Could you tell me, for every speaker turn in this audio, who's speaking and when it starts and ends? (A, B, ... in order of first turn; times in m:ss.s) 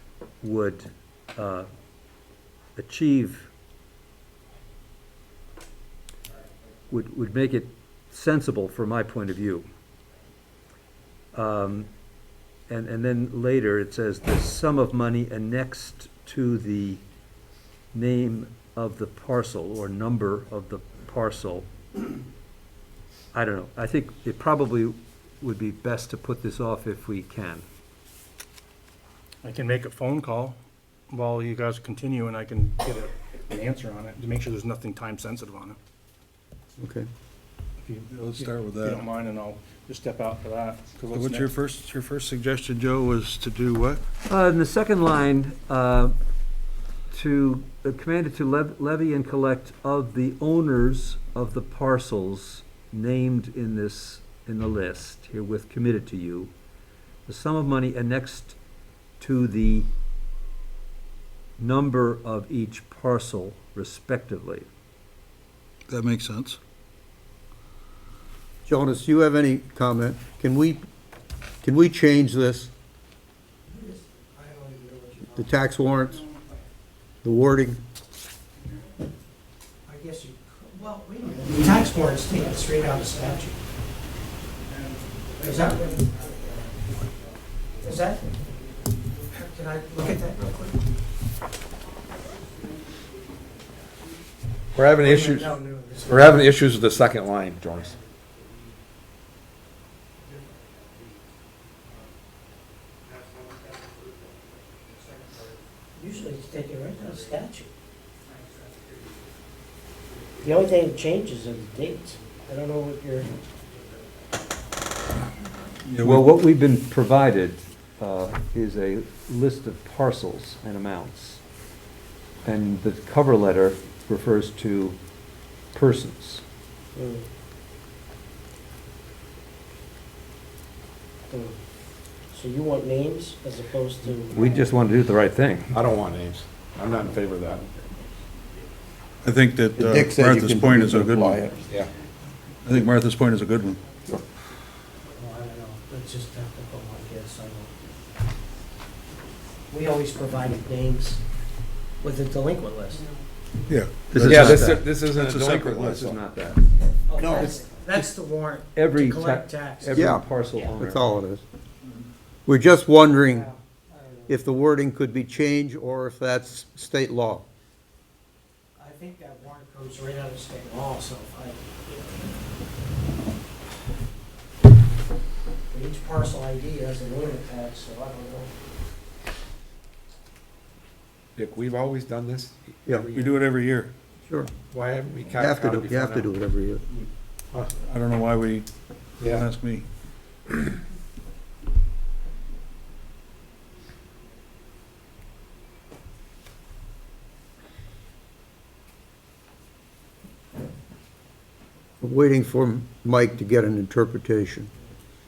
0:00.4-0:01.7 A
0:02.8-0:03.5 A
0:06.9-0:09.7 A
0:11.3-0:11.9 A
0:12.7-0:17.0 A
0:17.9-0:21.7 A
0:23.3-0:27.7 A
0:29.4-0:30.6 B
0:31.1-0:35.8 B
0:36.8-0:37.1 C
0:37.8-0:41.6 B
0:38.1-0:39.0 D
0:41.1-0:44.0 D
0:44.3-0:46.2 A
0:47.1-0:56.5 A
0:57.3-0:58.6 A
0:59.2-0:59.9 A
1:01.6-1:04.7 A
1:05.9-1:06.6 D
1:08.7-1:10.8 C
1:11.6-1:12.7 C
1:13.7-1:15.5 E
1:15.3-1:16.2 C
1:17.2-1:17.8 C
1:19.9-1:23.6 E
1:22.7-1:23.2 B
1:24.7-1:28.0 B
1:25.4-1:26.7 E
1:27.8-1:28.3 E
1:29.3-1:30.8 E
1:34.8-1:38.0 F
1:35.0-1:36.6 E
1:46.0-1:47.7 E
1:50.4-1:53.3 E
1:55.8-1:56.4 D
1:56.0-2:01.4 A
2:02.4-2:05.0 A
2:05.7-2:06.4 A
2:07.0-2:07.3 E
2:11.3-2:11.6 E
2:12.3-2:14.6 E
2:14.0-2:15.8 A
2:15.7-2:17.7 F
2:19.2-2:21.5 D
2:19.8-2:21.6 C
2:22.6-2:23.8 D
2:25.2-2:27.7 E
2:29.7-2:31.2 E
2:32.0-2:33.1 E
2:33.7-2:36.2 D
2:34.1-2:34.9 A
2:34.2-2:36.2 F
2:35.8-2:36.6 A
2:37.1-2:40.7 E
2:37.2-2:37.6 C
2:37.4-2:37.6 A
2:38.8-2:41.1 A
2:39.9-2:40.2 C
2:40.8-2:41.4 C
2:42.5-2:43.5 C
2:43.2-2:44.4 E
2:44.3-2:47.4 C
2:48.8-2:52.0 E
2:55.7-2:58.5 E
3:01.4-3:03.3 F
3:03.1-3:03.9 D
3:04.2-3:04.5 C
3:04.7-3:06.4 F
3:05.3-3:06.9 C
3:07.7-3:08.7 D
3:09.2-3:09.9 D
3:09.2-3:09.5 F
3:22.0-3:24.7 C